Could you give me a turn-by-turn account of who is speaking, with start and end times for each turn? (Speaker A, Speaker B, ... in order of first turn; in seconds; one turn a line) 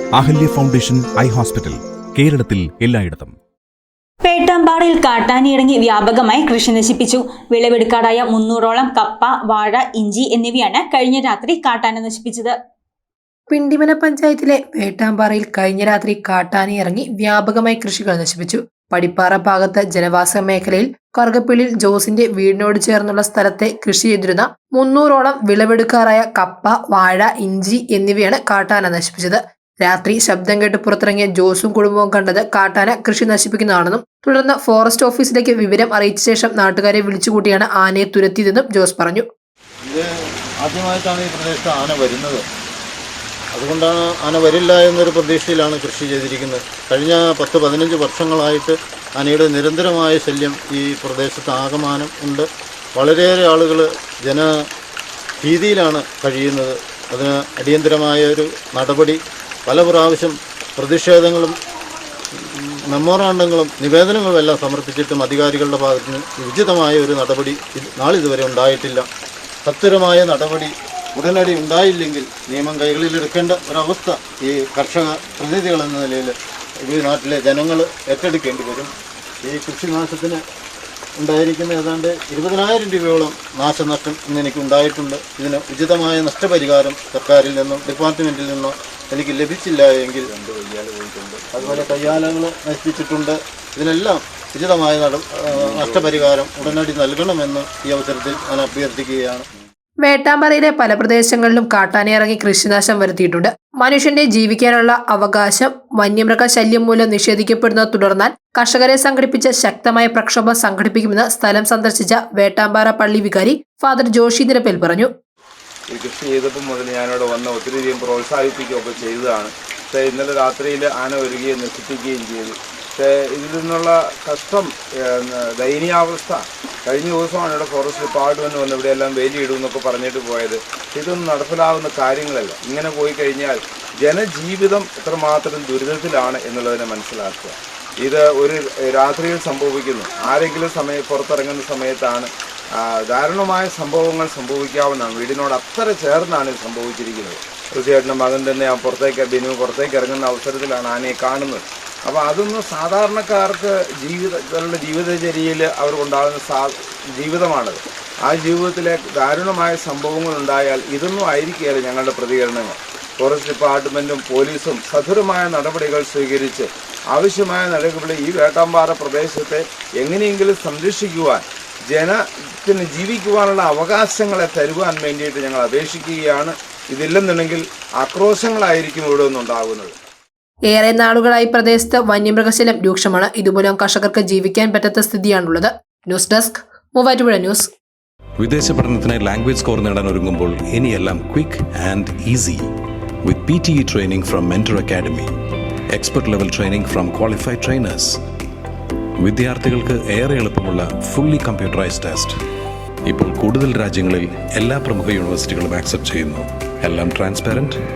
Speaker A: 0.4-1.7
Speaker A: 2.2-3.3
Speaker B: 4.2-12.6
Speaker C: 13.5-39.2
Speaker D: 40.6-42.4
Speaker D: 43.5-54.5
Speaker D: 55.4-61.5
Speaker D: 62.4-69.1
Speaker D: 69.6-78.9
Speaker D: 79.4-80.4
Speaker D: 81.2-90.3
Speaker E: 90.2-92.4
Speaker D: 91.5-99.4
Speaker E: 95.5-96.7
Speaker C: 100.0-115.1
Speaker E: 115.9-142.3
Speaker E: 142.8-179.9
Speaker C: 180.7-187.7
Speaker F: 188.4-192.7
Speaker F: 193.2-195.3
Speaker F: 195.9-198.2
Speaker F: 199.2-202.3
Speaker F: 203.1-207.8